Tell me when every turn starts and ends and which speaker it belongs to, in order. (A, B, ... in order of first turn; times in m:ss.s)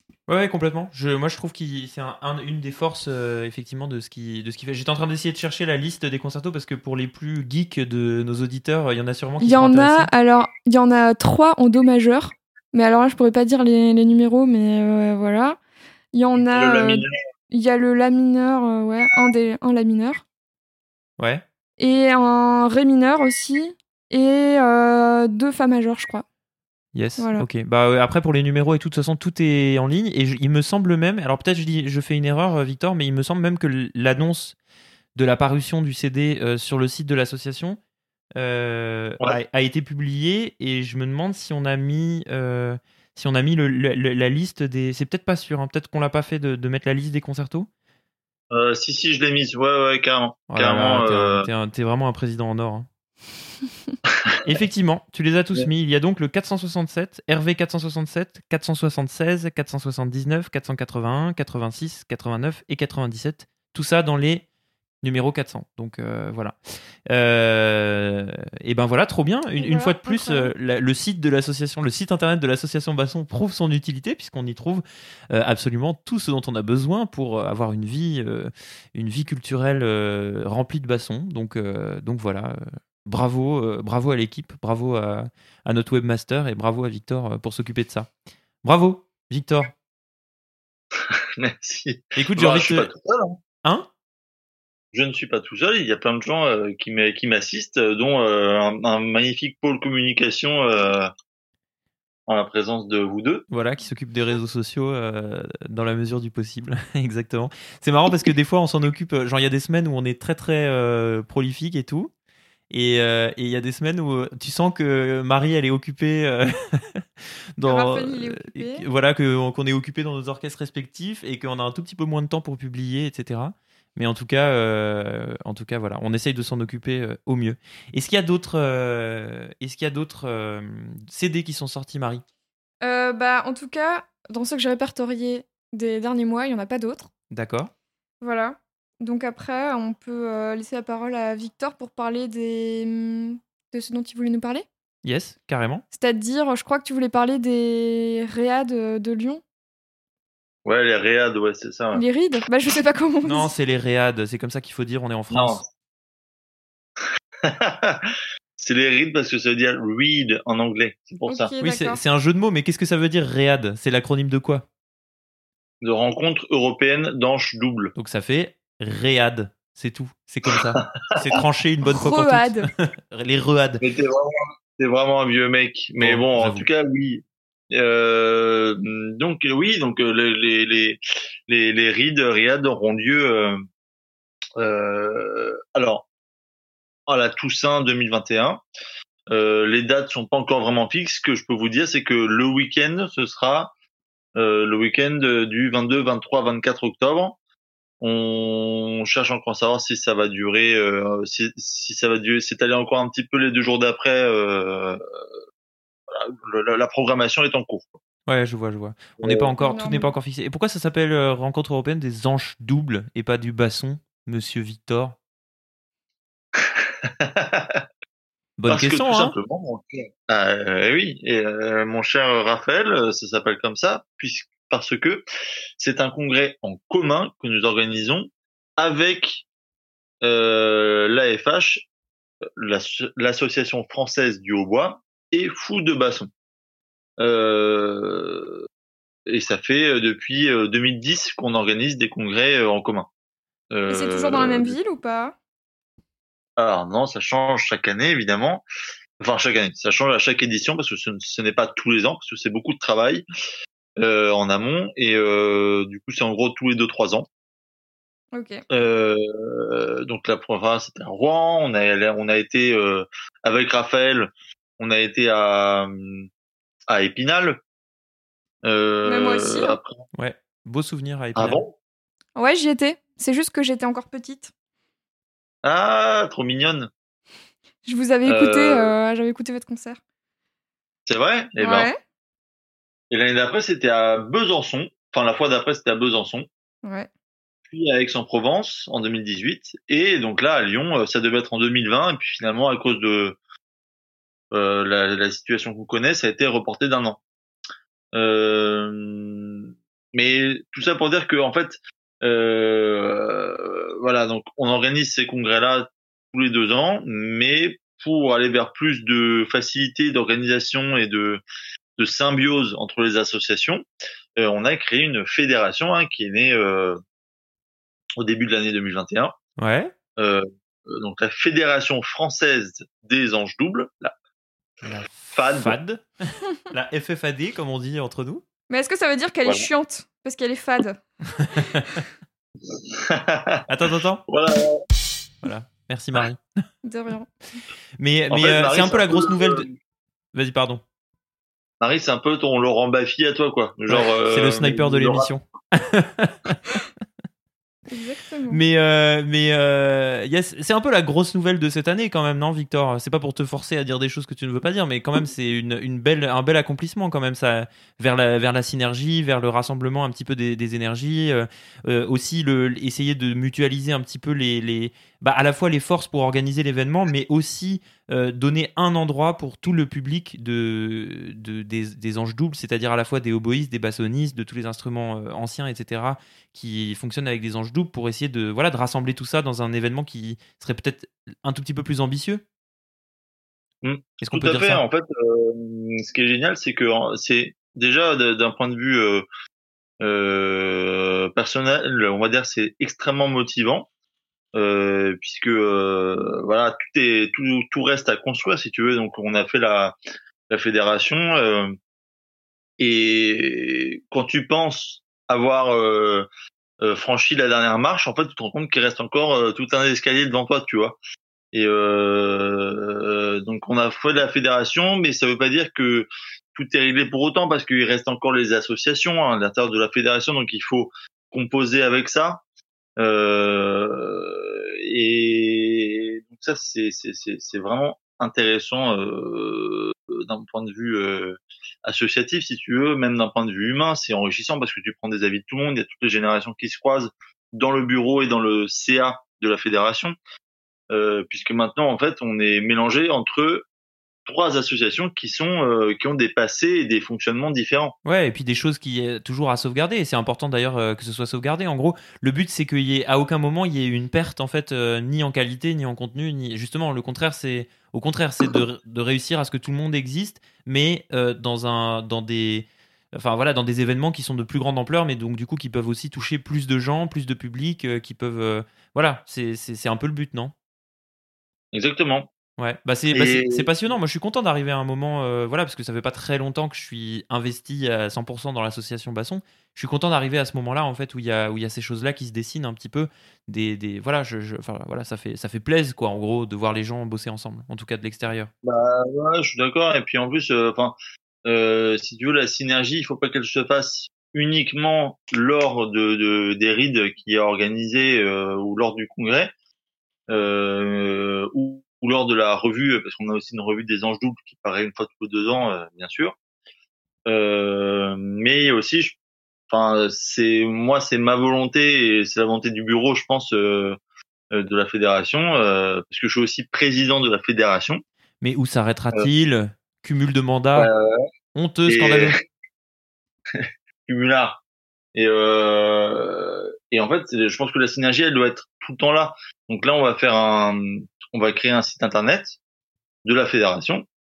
0:00.3-0:10.1 A
0:09.4-0:15.6 B
0:16.1-0:20.2 B
0:16.4-0:17.1 C
0:21.8-0:26.2 B
0:26.9-0:34.6 A
0:27.2-0:27.4 B
0:35.1-0:37.8 A
0:38.4-0:47.7 A
0:48.5-0:51.5 C
0:50.5-0:52.9 A
0:54.4-1:04.4 A
1:05.0-1:06.5 A
1:07.1-1:28.1 A
1:09.6-1:10.5 B
1:28.6-1:29.7 A
1:31.0-1:33.4 C
1:32.2-1:32.9 A
1:34.9-1:41.1 C
1:42.3-1:43.4 C
1:43.5-1:52.1 A
1:52.7-1:57.0 A
1:57.6-2:12.2 A
1:57.7-1:58.9 B
2:12.8-2:17.1 B
2:17.3-2:17.7 A
2:18.2-2:24.6 B
2:25.0-2:25.8 A
2:25.9-2:29.4 B
2:30.6-2:32.0 C
2:31.9-2:33.5 B
2:33.2-2:35.6 A
2:35.3-2:35.6 C
2:37.4-2:41.5 C
2:41.2-2:42.0 B
2:41.6-2:44.6 A
2:45.8-2:47.9 C
2:48.0-2:53.8 A
2:51.8-2:52.7 B
2:53.8-3:03.6 C
2:56.0-2:56.7 A
3:04.6-3:06.1 C
3:07.1-3:08.6 C
3:09.3-3:13.7 C
3:14.4-3:17.4 C
3:18.0-3:25.0 C
3:26.1-3:28.0 C
3:28.3-3:35.2 A
3:29.2-3:29.5 C
3:29.6-3:30.1 B
3:36.6-3:37.8 C
3:38.6-3:39.3 A
3:38.7-3:45.2 C
3:45.8-3:49.4 C
3:50.2-3:51.8 C
3:52.6-3:56.3 C
3:57.2-3:58.6 C
3:59.3-4:03.1 C
4:03.7-4:04.8 C
4:03.9-4:05.4 B
4:06.6-4:08.6 C
4:09.2-4:13.2 C
4:14.0-4:17.3 C
4:18.3-4:18.6 B
4:18.7-4:26.3 C
4:26.9-4:27.6 C
4:28.6-4:30.0 C
4:29.0-4:29.8 B
4:30.1-4:31.6 A
4:31.4-4:31.8 C
4:32.4-4:34.5 B
4:35.6-4:36.9 C
4:37.8-4:40.0 B
4:38.2-4:38.9 C
4:41.0-4:41.9 C
4:41.6-4:42.0 B
4:43.1-4:46.5 C
4:46.8-4:47.1 B
4:47.7-4:53.4 C
4:54.5-4:57.2 C
4:58.1-5:11.4 C
5:12.0-5:13.8 C
5:14.4-5:17.0 C
5:18.2-5:19.3 C
5:19.6-5:19.9 A
5:20.2-5:24.1 C
5:24.8-5:26.0 A
5:25.3-5:25.8 C
5:26.6-5:28.4 A
5:28.7-5:31.0 B
5:31.4-5:31.8 A
5:31.5-5:32.0 B
5:32.7-5:33.6 C
5:33.7-5:34.2 A
5:34.3-5:34.8 C
5:35.4-5:36.4 A
5:36.8-5:37.3 B
5:38.0-5:39.6 A
5:38.3-5:39.8 C
5:40.3-5:40.8 A
5:41.8-5:45.3 C
5:43.9-5:46.6 A
5:47.9-5:48.6 B
5:48.5-6:22.4 A
6:23.8-6:29.2 C
6:24.2-6:24.8 A
6:30.0-6:33.9 C
6:34.5-6:40.0 C
6:40.5-6:41.7 C
6:42.8-6:46.2 C
6:46.8-6:51.0 C
6:51.5-7:02.4 C
7:03.0-7:20.2 C
7:20.9-7:23.6 C
7:24.2-7:27.9 C
7:28.0-7:50.5 A
7:51.7-7:52.3 C
7:52.6-8:08.5 A
7:53.1-7:53.7 C
8:08.6-8:19.5 C
8:20.3-8:26.3 C
8:27.3-8:29.2 C
8:29.7-8:34.0 C
8:34.5-8:38.0 C
8:38.4-8:40.9 A
8:40.8-8:41.2 C
8:41.5-8:42.4 A
8:41.9-8:42.4 C
8:43.5-8:44.6 C
8:45.1-8:52.6 C
8:53.2-8:54.0 C